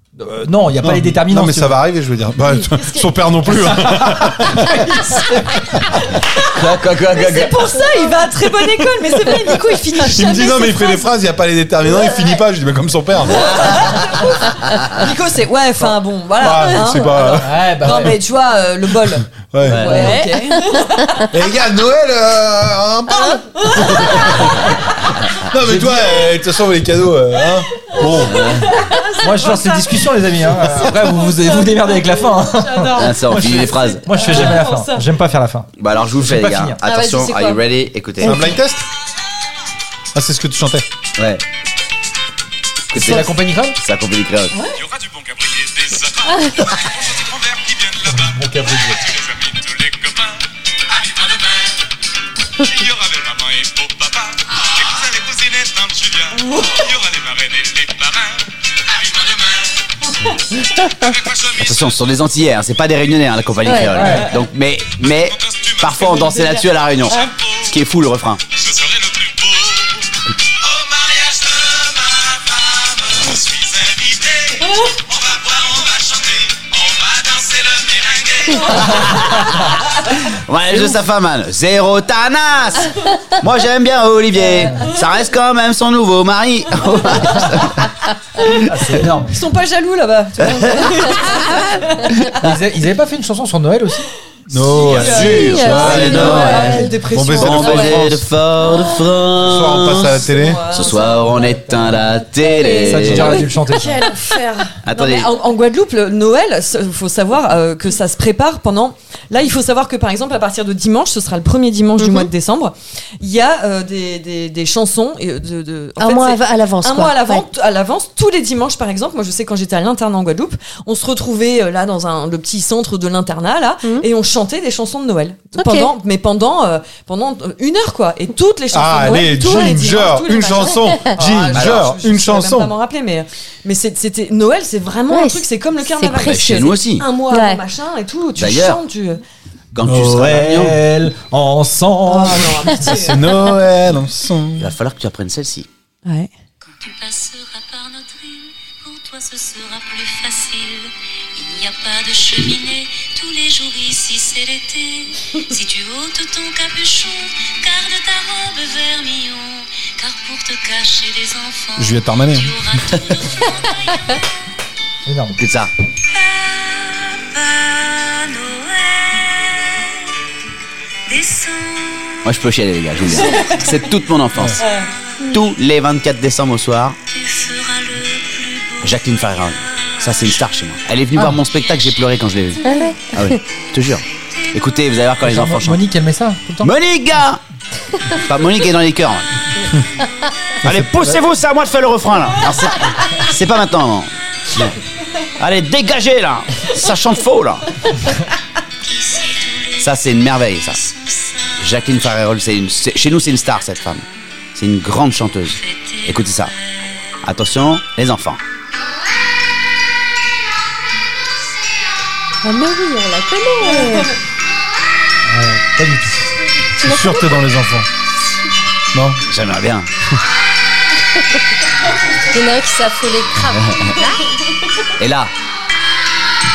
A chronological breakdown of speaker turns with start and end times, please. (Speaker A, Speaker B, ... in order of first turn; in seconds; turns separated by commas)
Speaker A: 0.2-1.8, Speaker B: 0.8-5.0, Speaker A: 3.5-5.6, Speaker B: 5.6-6.0, Speaker C: 6.1-11.1, Speaker D: 6.5-7.8, Speaker B: 10.0-13.7, Speaker C: 13.2-21.3, Speaker D: 13.3-15.1, Speaker B: 16.4-18.2, Speaker A: 17.4-18.2, Speaker B: 19.1-20.1, Speaker D: 19.6-20.2, Speaker A: 19.9-20.2, Speaker B: 21.3-24.8, Speaker C: 23.6-24.4, Speaker B: 25.3-28.6, Speaker A: 25.6-26.1, Speaker C: 27.5-35.1, Speaker D: 28.3-28.7, Speaker A: 29.2-36.8, Speaker D: 32.9-34.5, Speaker D: 35.8-38.5, Speaker C: 36.8-37.6, Speaker B: 38.2-38.8, Speaker E: 38.2-38.5, Speaker B: 40.1-40.9, Speaker D: 41.2-41.4, Speaker D: 42.9-44.6, Speaker A: 42.9-43.8, Speaker F: 44.8-51.9, Speaker A: 48.1-49.0, Speaker F: 52.6-59.9, Speaker C: 56.3-56.9, Speaker F: 60.7-61.9, Speaker D: 61.6-68.4, Speaker C: 63.6-64.3, Speaker E: 63.6-64.1, Speaker A: 63.9-64.3, Speaker F: 65.0-66.1, Speaker C: 66.0-67.3, Speaker F: 67.2-67.7, Speaker F: 68.5-79.1, Speaker D: 78.7-88.6, Speaker C: 86.9-87.1, Speaker A: 88.5-89.4, Speaker C: 89.3-92.3, Speaker D: 90.4-92.5, Speaker A: 92.4-94.1, Speaker B: 94.5-98.2, Speaker C: 94.7-99.0, Speaker D: 94.8-103.5, Speaker E: 95.3-96.9, Speaker A: 95.8-96.9, Speaker B: 99.4-100.7, Speaker C: 100.0-101.5, Speaker A: 101.3-102.0, Speaker A: 102.8-104.0, Speaker C: 103.0-139.2, Speaker D: 104.8-105.3, Speaker E: 112.0-112.3, Speaker E: 116.0-117.5, Speaker E: 125.5-125.9, Speaker B: 128.7-132.7, Speaker D: 131.5-131.8, Speaker E: 135.1-136.7, Speaker D: 136.2-137.1, Speaker E: 137.3-137.6, Speaker D: 138.4-138.8, Speaker D: 139.7-140.8, Speaker A: 139.8-143.0, Speaker C: 142.1-143.2, Speaker B: 142.9-144.7, Speaker D: 144.6-145.7, Speaker C: 146.1-146.3, Speaker G: 146.8-164.2, Speaker B: 161.8-162.5, Speaker A: 165.1-165.4, Speaker D: 165.4-165.7, Speaker G: 166.1-170.0, Speaker G: 171.1-172.4, Speaker D: 172.2-174.7, Speaker C: 173.1-173.6, Speaker A: 174.3-174.6, Speaker C: 174.6-174.9, Speaker D: 175.3-177.0, Speaker G: 177.1-180.5, Speaker D: 178.8-185.8, Speaker G: 181.5-182.0, Speaker E: 182.6-183.4, Speaker G: 183.8-184.8, Speaker A: 185.2-186.7, Speaker D: 186.6-187.4, Speaker D: 188.1-189.3, Speaker D: 190.6-194.8, Speaker D: 195.4-197.9, Speaker G: 198.8-200.0, Speaker D: 199.8-200.8, Speaker G: 200.7-202.2, Speaker D: 201.6-206.5, Speaker G: 205.5-207.2, Speaker D: 207.2-208.4, Speaker E: 212.4-214.2, Speaker A: 215.3-216.3, Speaker B: 216.8-217.9, Speaker E: 216.8-217.3, Speaker B: 218.9-219.2, Speaker D: 219.3-219.9, Speaker E: 222.2-224.2, Speaker D: 223.6-223.9, Speaker D: 225.0-225.3